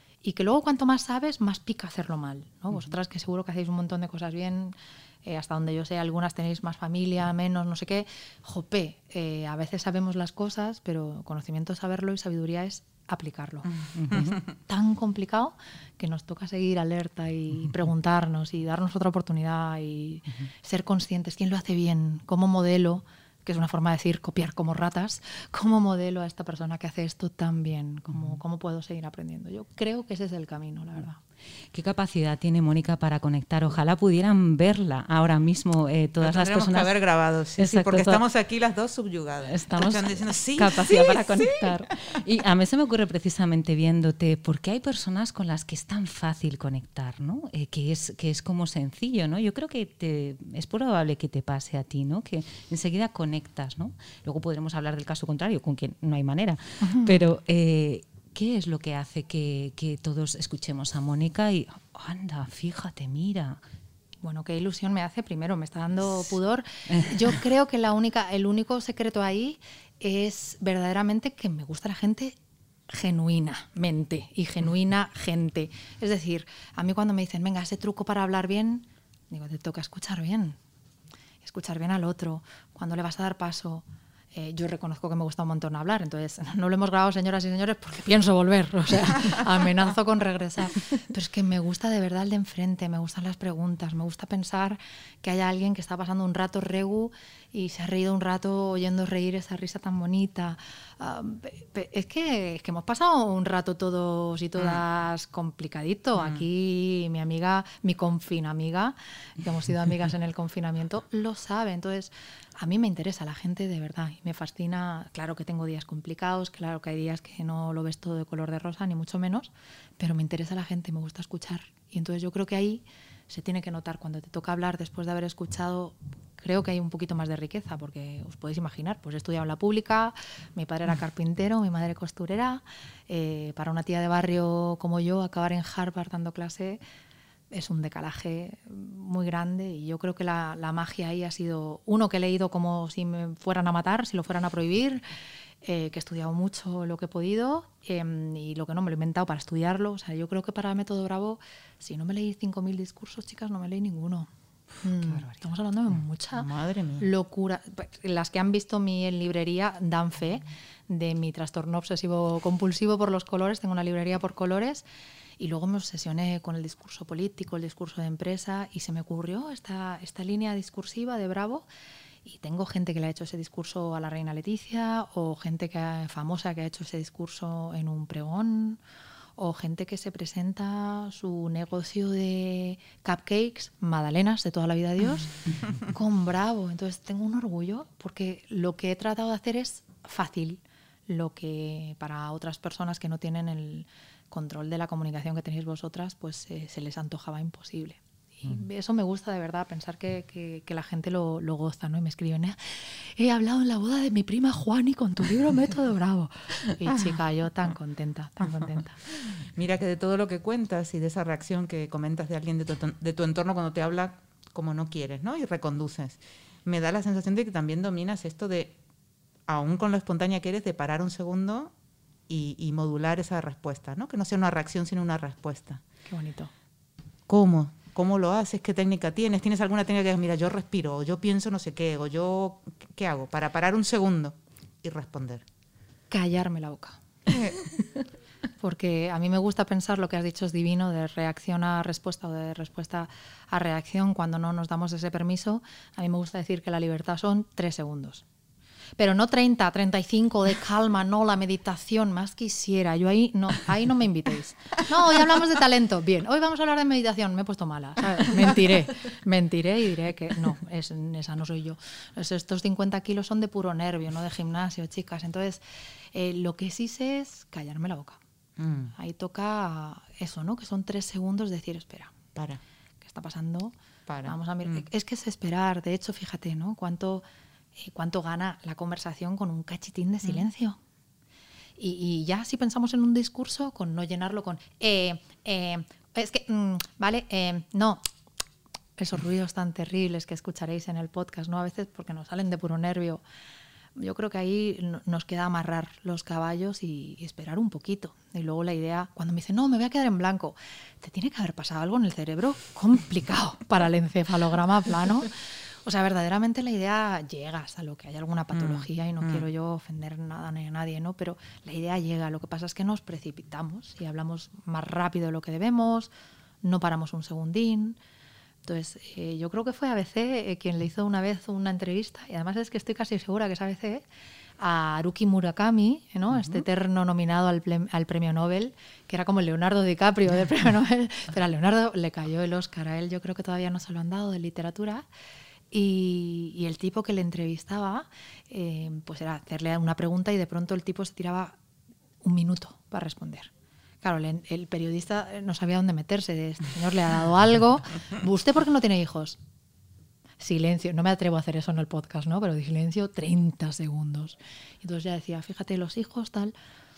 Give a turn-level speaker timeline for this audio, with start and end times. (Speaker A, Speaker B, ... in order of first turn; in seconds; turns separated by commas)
Speaker A: 0.2-31.2, Speaker B: 14.0-14.4, Speaker B: 31.7-36.9, Speaker C: 36.2-41.7, Speaker B: 37.6-38.2, Speaker B: 39.5-63.6, Speaker A: 56.8-57.2, Speaker A: 64.2-72.3, Speaker A: 72.9-80.6, Speaker A: 81.4-136.8, Speaker A: 137.5-145.1, Speaker A: 145.6-154.3, Speaker A: 154.8-156.5, Speaker C: 156.3-157.1, Speaker A: 157.0-164.8, Speaker A: 165.4-171.7, Speaker A: 172.2-178.8, Speaker A: 179.4-209.0, Speaker C: 209.4-218.8, Speaker C: 219.5-221.7, Speaker C: 222.3-225.8, Speaker A: 226.1-226.5, Speaker C: 227.3-235.4, Speaker A: 236.1-237.0, Speaker A: 238.6-248.2, Speaker A: 249.0-265.6, Speaker A: 266.1-268.2, Speaker C: 268.6-268.9, Speaker A: 268.9-272.1, Speaker C: 272.4-272.6, Speaker A: 273.0-277.2, Speaker C: 274.1-274.8, Speaker A: 277.8-280.8, Speaker A: 281.8-288.0, Speaker A: 289.0-293.2, Speaker A: 294.0-316.1, Speaker C: 308.5-309.4, Speaker A: 316.6-318.0, Speaker A: 318.6-324.1, Speaker A: 324.6-335.1, Speaker A: 335.7-341.6, Speaker A: 342.2-343.5, Speaker A: 344.0-349.4, Speaker A: 350.4-356.5